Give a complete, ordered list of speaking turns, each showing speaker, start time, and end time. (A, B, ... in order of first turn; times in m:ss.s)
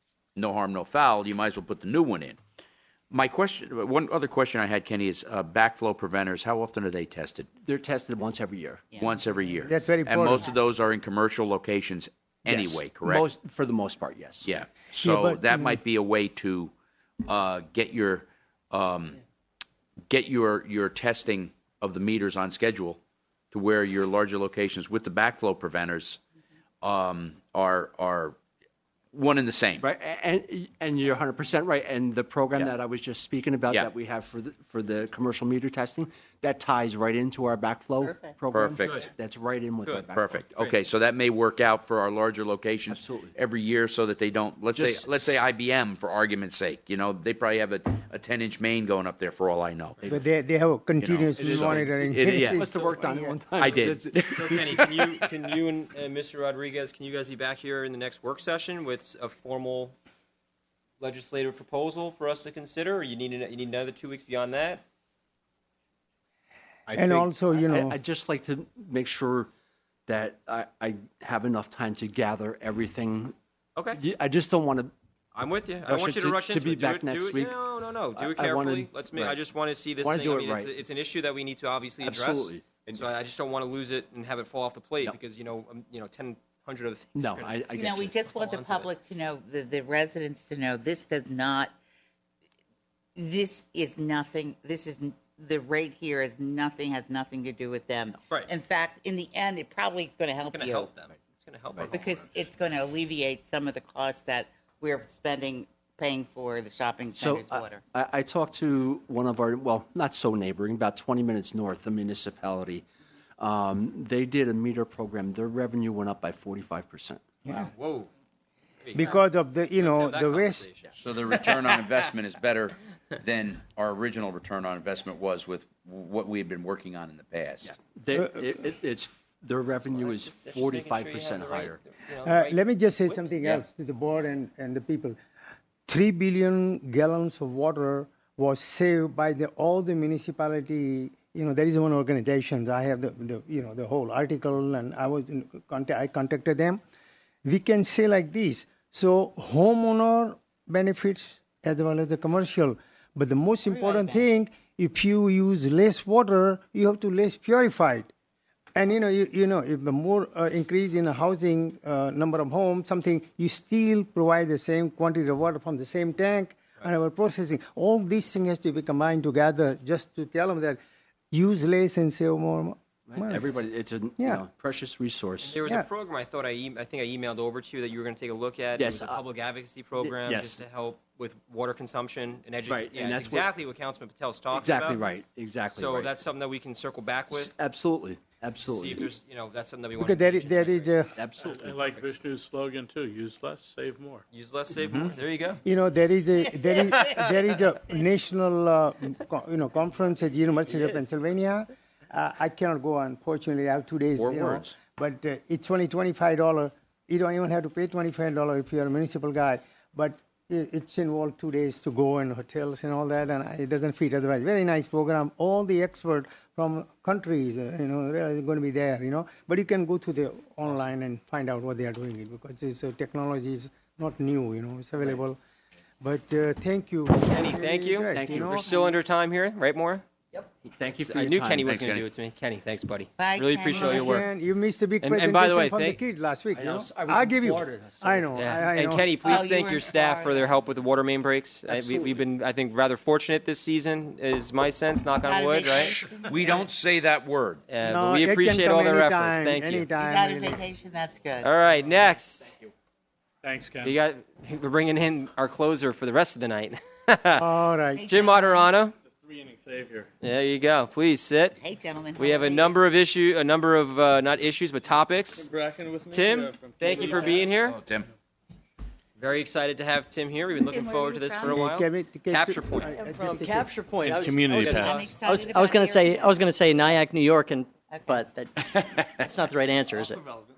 0:00.4-0:02.4 A
0:03.1-0:07.5 A
0:07.6-0:08.8 B
0:08.9-0:09.2 C
0:09.0-0:13.2 A
0:09.6-0:10.5 D
0:12.4-0:14.5 B
0:14.4-0:19.2 A
0:15.0-0:15.8 D
0:20.1-0:23.0 A
0:23.5-0:26.2 A
0:26.8-0:28.4 A
0:29.1-0:29.8 A
0:29.8-0:40.4 B
0:38.0-0:38.4 C
0:38.5-0:39.0 A
0:38.8-0:39.1 E
0:40.1-0:50.0 A
0:42.9-0:43.3 B
0:44.7-0:45.4 B
0:50.1-0:53.4 D
0:51.0-0:52.6 A
0:51.4-0:55.3 B
0:52.6-0:53.0 E
0:53.6-0:54.0 A
0:54.3-1:00.0 E
1:01.0-1:04.8 E
1:06.9-1:09.5 B
1:07.0-1:08.0 D
1:10.1-1:13.4 B
1:13.8-1:14.0 E
1:14.0-1:14.9 B
1:15.4-1:28.9 E
1:15.8-1:17.6 B
1:18.2-1:19.4 B
1:20.0-1:20.7 B
1:22.0-1:22.8 B
1:27.2-1:28.2 B
1:27.8-1:31.7 C
1:33.2-1:40.9 C
1:40.4-1:42.4 E
1:41.9-1:47.8 C
1:47.2-1:52.8 B
1:53.4-1:57.2 B
1:57.4-1:57.7 D
1:57.5-1:58.1 E
1:58.8-1:59.2 E
1:59.0-2:00.7 D
1:59.8-2:01.0 E
2:01.0-2:07.7 A
2:07.6-2:11.8 B
2:08.2-2:08.4 D
2:09.8-2:13.6 E
2:12.2-2:15.2 D
2:15.9-2:26.8 D
2:27.4-2:38.1 D
2:33.6-2:34.2 C
2:38.8-2:50.8 D
2:51.3-2:53.4 D
2:53.1-2:55.7 B
2:55.4-3:05.1 E
2:58.8-2:59.2 B
3:00.0-3:00.6 B
3:02.7-3:03.5 B
3:04.5-3:06.1 B
3:05.7-3:07.6 E
3:07.3-3:09.1 B
3:08.7-3:11.0 E
3:10.0-3:11.2 D
3:11.2-3:12.1 B
3:11.4-3:14.2 F
3:14.3-3:15.6 E
3:14.9-3:15.1 A
3:15.6-3:45.4 D
3:20.7-3:21.1 E
3:24.2-3:24.8 A
3:46.0-3:49.0 D
3:47.2-3:50.0 E
3:48.1-3:48.8 B
3:50.3-3:51.7 B
3:51.0-3:54.3 E
3:51.6-3:52.1 A
3:53.2-3:54.2 C
3:53.7-3:59.1 D
3:55.0-3:56.0 E
3:56.5-3:58.4 B
3:58.4-4:06.0 E
3:59.2-4:00.6 C
4:01.7-4:02.2 B
4:05.2-4:06.7 C
4:06.2-4:07.6 A
4:07.7-4:09.9 E
4:07.8-4:10.6 D
4:10.0-4:11.5 C
4:11.4-4:12.6 E
4:13.4-4:14.0 F
4:13.8-4:17.5 E
4:17.4-4:18.0 D
4:18.0-4:18.7 C
4:18.1-4:19.0 E
4:19.2-4:20.1 F
4:20.2-4:21.6 E
4:21.6-4:22.8 C
4:22.2-4:25.5 E
4:25.4-4:27.4 F
4:26.1-4:27.8 E
4:27.6-4:28.1 A
4:29.2-4:32.9 E
4:30.6-4:31.6 C
4:31.4-4:34.3 D
4:32.9-4:38.5 G
4:34.1-4:35.1 F
4:34.5-4:36.5 C
4:37.9-4:38.3 C
4:38.6-4:39.3 B
4:39.2-4:40.2 G